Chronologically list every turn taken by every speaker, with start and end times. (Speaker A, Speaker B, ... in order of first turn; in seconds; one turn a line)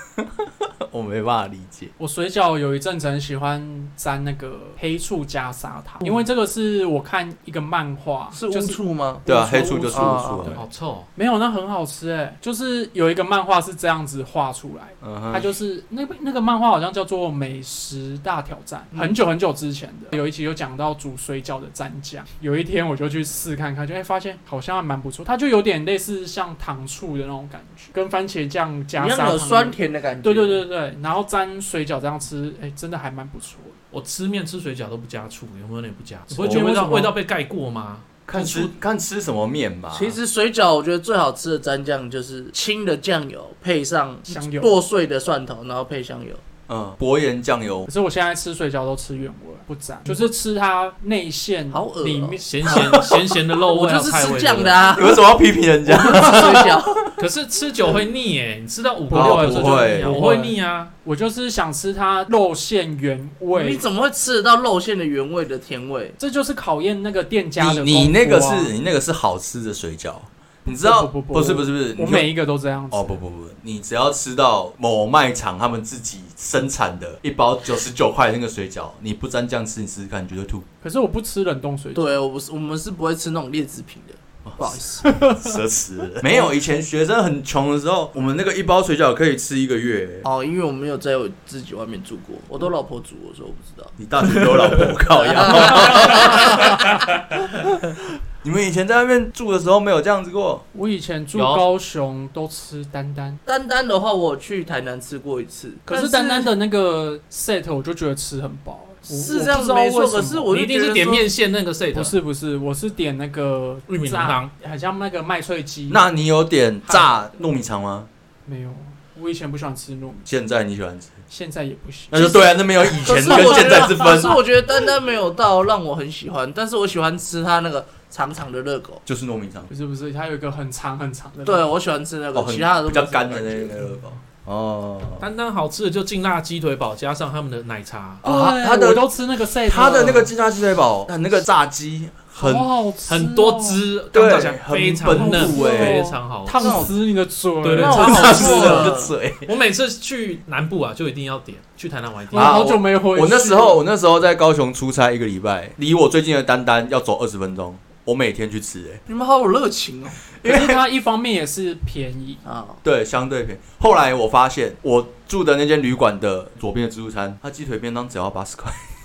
Speaker A: 0.2-1.9
Speaker B: 2.0-33.8
Speaker C: 8.3-10.5
Speaker A: 9.2-10.6
Speaker D: 10.5-11.1
Speaker A: 15.0-15.5
Speaker C: 18.9-19.2
Speaker C: 28.9-30.6
Speaker D: 33.9-38.7
Speaker B: 36.3-37.1
Speaker A: 36.4-37.0
Speaker A: 38.2-40.2
Speaker C: 39.9-46.4
Speaker B: 44.3-44.7
Speaker A: 46.7-47.9
Speaker B: 47.9-53.1
Speaker C: 51.7-55.3
Speaker D: 52.4-54.8
Speaker A: 54.9-57.0
Speaker C: 55.9-57.1
Speaker D: 57.2-60.9
Speaker A: 59.1-60.2
Speaker B: 59.1-63.8
Speaker C: 63.5-66.2
Speaker B: 66.2-68.7
Speaker A: 67.6-72.3
Speaker B: 70.7-73.2
Speaker A: 72.9-80.7
Speaker B: 80.8-82.2
Speaker C: 81.9-85.1
Speaker A: 84.5-90.3
Speaker B: 85.0-85.5
Speaker C: 86.2-86.5
Speaker C: 90.2-93.9
Speaker A: 94.0-96.8
Speaker C: 95.1-96.8
Speaker A: 98.4-100.6
Speaker B: 100.7-103.4
Speaker D: 101.3-101.6
Speaker C: 103.5-106.5
Speaker B: 105.9-110.5
Speaker C: 109.1-111.2
Speaker D: 110.5-112.2
Speaker B: 111.9-116.0
Speaker D: 113.9-114.5
Speaker A: 115.9-118.1
Speaker B: 116.9-117.3
Speaker B: 118.4-120.3
Speaker A: 120.3-121.2
Speaker B: 121.3-124.2
Speaker A: 122.1-124.4
Speaker C: 123.0-129.0
Speaker A: 129.1-129.7
Speaker B: 129.7-131.6
Speaker C: 131.4-133.7
Speaker A: 132.3-135.3
Speaker D: 135.2-138.2
Speaker A: 138.2-139.1
Speaker B: 138.2-140.3
Speaker A: 139.7-142.7
Speaker B: 142.4-143.8
Speaker D: 143.1-146.8
Speaker A: 144.1-146.0
Speaker B: 145.1-148.9
Speaker C: 146.6-146.9
Speaker D: 147.6-148.7
Speaker C: 147.7-149.1
Speaker A: 148.0-149.5
Speaker D: 149.4-152.6
Speaker B: 152.3-153.8
Speaker A: 152.3-159.0
Speaker C: 159.1-160.3
Speaker A: 160.4-160.8
Speaker B: 160.4-162.4
Speaker C: 162.4-162.8
Speaker A: 162.8-168.9